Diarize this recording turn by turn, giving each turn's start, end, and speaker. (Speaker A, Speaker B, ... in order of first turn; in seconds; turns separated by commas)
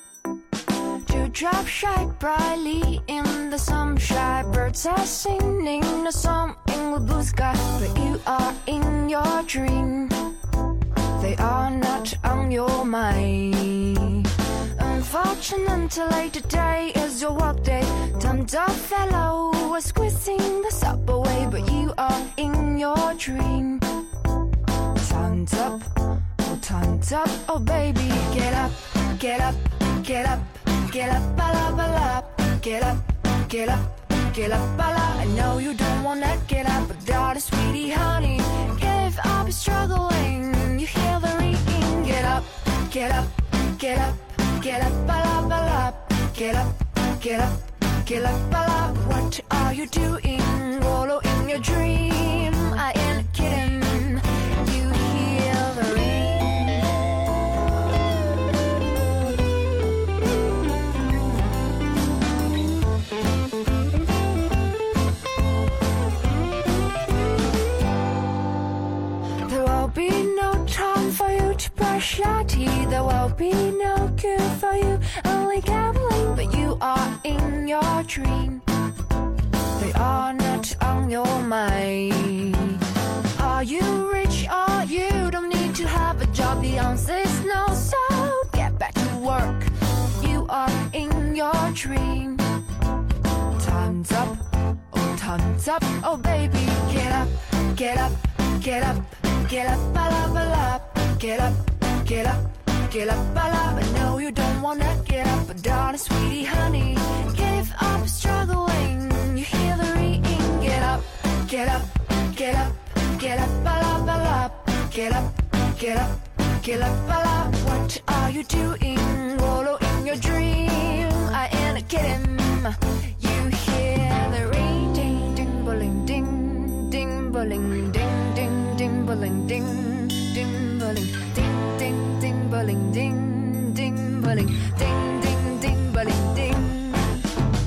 Speaker A: 1.0-10.3, Speaker A: 11.2-24.1, Speaker A: 24.9-57.0, Speaker A: 69.5-78.6, Speaker A: 79.8-92.6, Speaker A: 93.5-137.4